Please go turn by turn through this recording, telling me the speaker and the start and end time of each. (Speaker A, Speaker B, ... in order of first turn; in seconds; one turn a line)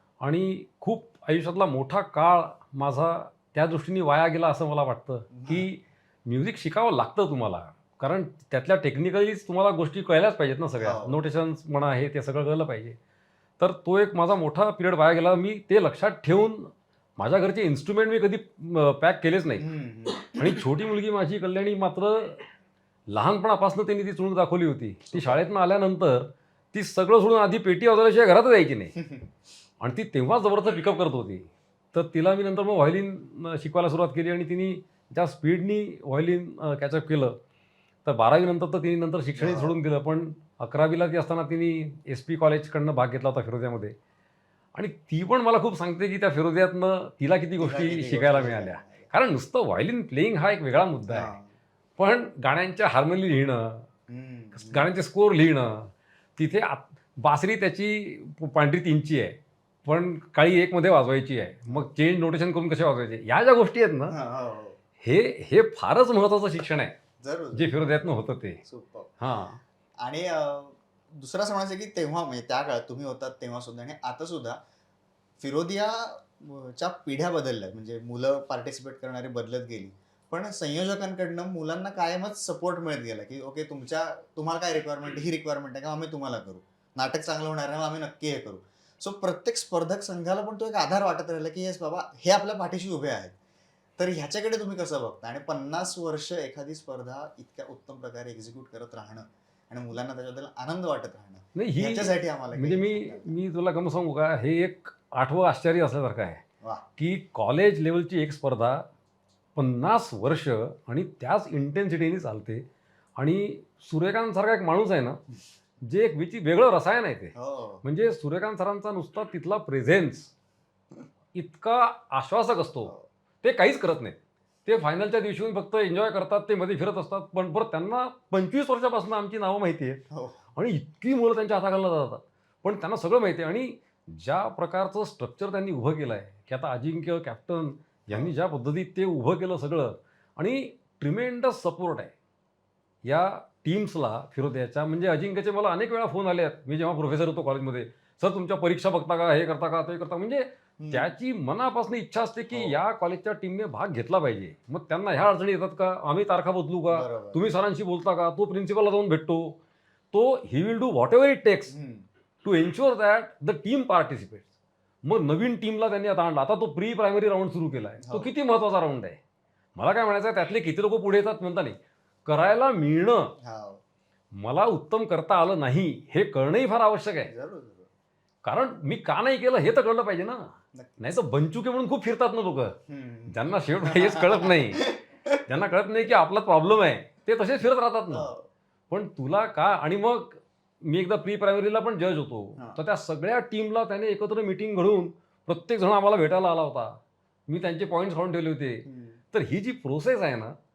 Speaker A: 0.2-13.0
Speaker B: 5.3-5.7
Speaker B: 10.8-11.2
Speaker A: 13.6-19.6
Speaker B: 19.6-20.6
Speaker A: 20.3-22.4
Speaker A: 23.1-28.9
Speaker B: 25.1-25.4
Speaker B: 29.0-29.3
Speaker A: 29.8-37.3
Speaker A: 38.0-43.9
Speaker B: 39.3-39.8
Speaker A: 44.8-51.3
Speaker B: 47.6-49.1
Speaker B: 51.1-51.5
Speaker A: 52.0-53.9
Speaker B: 54.1-54.9
Speaker A: 54.5-64.2
Speaker B: 64.1-64.8
Speaker A: 65.0-66.9
Speaker B: 67.2-67.9
Speaker A: 67.5-68.6
Speaker B: 68.6-69.2
Speaker A: 69.2-69.6
Speaker B: 70.0-74.6
Speaker B: 75.4-93.4
Speaker B: 94.0-103.3
Speaker A: 101.5-106.4
Speaker A: 107.0-108.8
Speaker A: 109.5-112.6
Speaker A: 113.2-115.2
Speaker A: 115.8-120.3
Speaker B: 117.3-117.8
Speaker A: 121.3-130.0
Speaker B: 130.1-130.4
Speaker A: 130.6-142.1
Speaker A: 143.0-159.6
Speaker B: 150.8-151.1
Speaker B: 152.5-152.8
Speaker B: 156.9-157.4
Speaker A: 160.1-161.7
Speaker B: 161.7-162.1
Speaker A: 162.4-164.5
Speaker A: 165.0-169.2
Speaker B: 168.0-168.3
Speaker A: 169.8-173.3
Speaker B: 173.4-173.8
Speaker A: 174.4-177.3
Speaker B: 177.2-177.9
Speaker A: 178.4-180.4
Speaker A: 181.0-182.8
Speaker B: 182.9-185.0
Speaker A: 183.3-184.9
Speaker A: 185.4-188.3
Speaker B: 188.1-188.4
Speaker A: 188.9-196.9
Speaker A: 197.5-200.5
Speaker B: 198.8-199.2